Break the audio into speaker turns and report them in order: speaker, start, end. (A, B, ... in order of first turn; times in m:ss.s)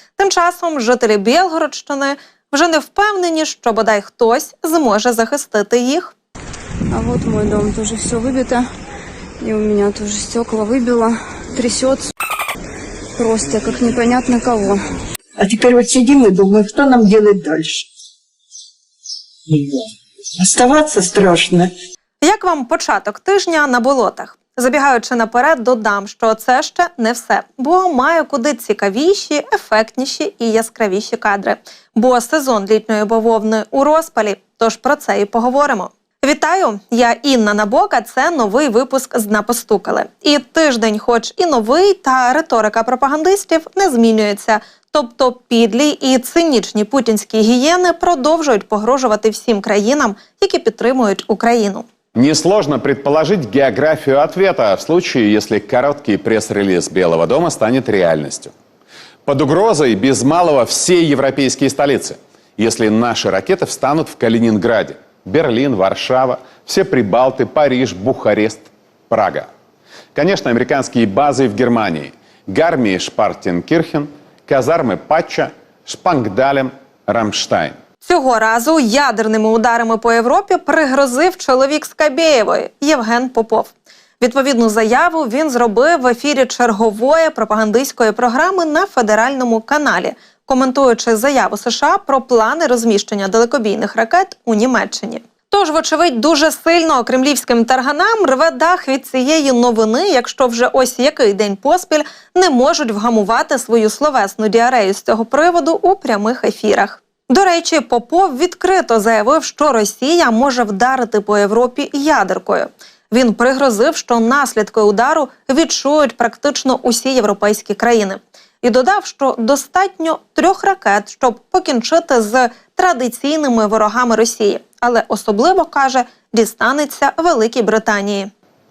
0:00.2-0:06.1 A
0:06.9-0:08.7 B
0:09.4-0:12.1 B
0:13.2-0:14.8 B
0:15.4-0:17.9 C
0:19.5-0:19.8 C
0:20.4-0:21.7 C
0:22.2-0:51.8 A
0:52.1-0:58.5 D
0:59.2-1:09.5 D
1:10.1-1:17.8 D
1:18.0-2:08.3 A